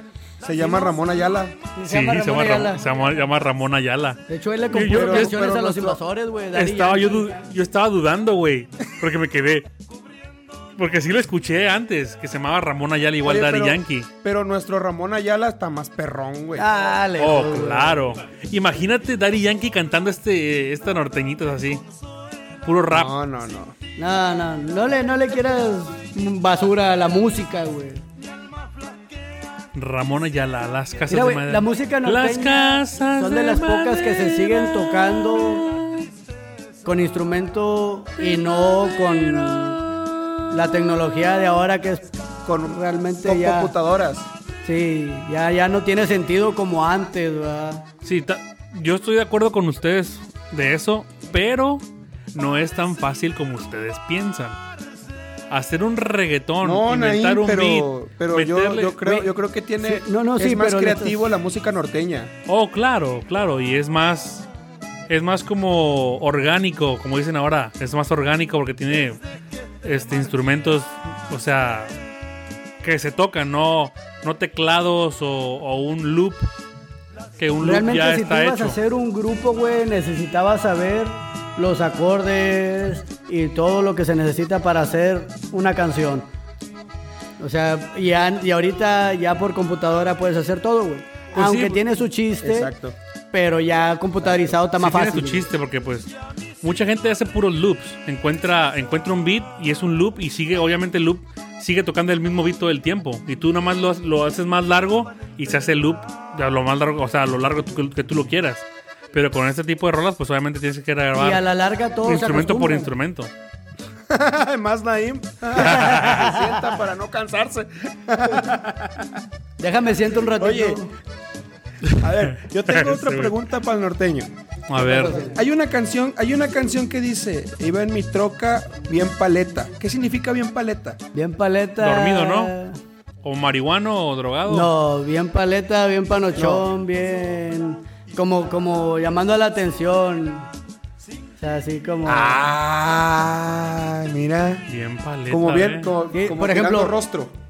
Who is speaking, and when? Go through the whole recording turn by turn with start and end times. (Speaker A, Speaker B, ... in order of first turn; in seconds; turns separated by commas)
Speaker A: 0.4-1.5, Speaker B: 0.6-0.9, Speaker B: 1.7-2.8, Speaker C: 1.9-5.4, Speaker B: 4.3-7.3, Speaker A: 4.9-6.0, Speaker C: 6.5-9.7, Speaker C: 10.8-14.1, Speaker A: 13.2-16.7, Speaker B: 16.6-18.1, Speaker C: 17.2-21.8, Speaker C: 22.6-23.1, Speaker A: 22.9-23.8, Speaker B: 23.9-28.0, Speaker C: 29.7-36.1, Speaker B: 31.1-35.6, Speaker B: 36.8-39.9, Speaker C: 39.5-40.4, Speaker B: 40.5-42.1, Speaker A: 42.4-44.3, Speaker B: 42.6-43.7, Speaker B: 44.6-47.9, Speaker C: 48.0-54.6, Speaker C: 55.5-59.1, Speaker A: 56.6-62.3, Speaker B: 59.8-61.2, Speaker C: 62.5-64.5, Speaker C: 65.1-69.2, Speaker C: 69.8-71.9, Speaker C: 72.8-76.5, Speaker C: 77.4-78.8, Speaker B: 77.6-86.3, Speaker B: 87.4-92.7, Speaker C: 91.3-91.8, Speaker A: 92.4-93.0, Speaker B: 93.3-95.5, Speaker C: 94.8-96.1, Speaker C: 96.6-111.5, Speaker B: 111.1-112.9, Speaker C: 112.0-113.3, Speaker A: 114.1-119.2, Speaker B: 115.6-116.4, Speaker B: 119.6-120.9, Speaker A: 120.4-120.8, Speaker A: 122.0-124.3, Speaker C: 122.7-123.3, Speaker C: 124.7-125.2, Speaker B: 124.7-125.4, Speaker A: 125.2-131.0, Speaker B: 131.1-132.8, Speaker C: 131.8-132.5, Speaker C: 133.2-134.7, Speaker B: 134.4-140.5, Speaker A: 136.4-136.6, Speaker B: 141.4-142.4, Speaker A: 142.1-144.7, Speaker C: 144.7-145.9, Speaker A: 145.3-147.3, Speaker B: 146.1-147.0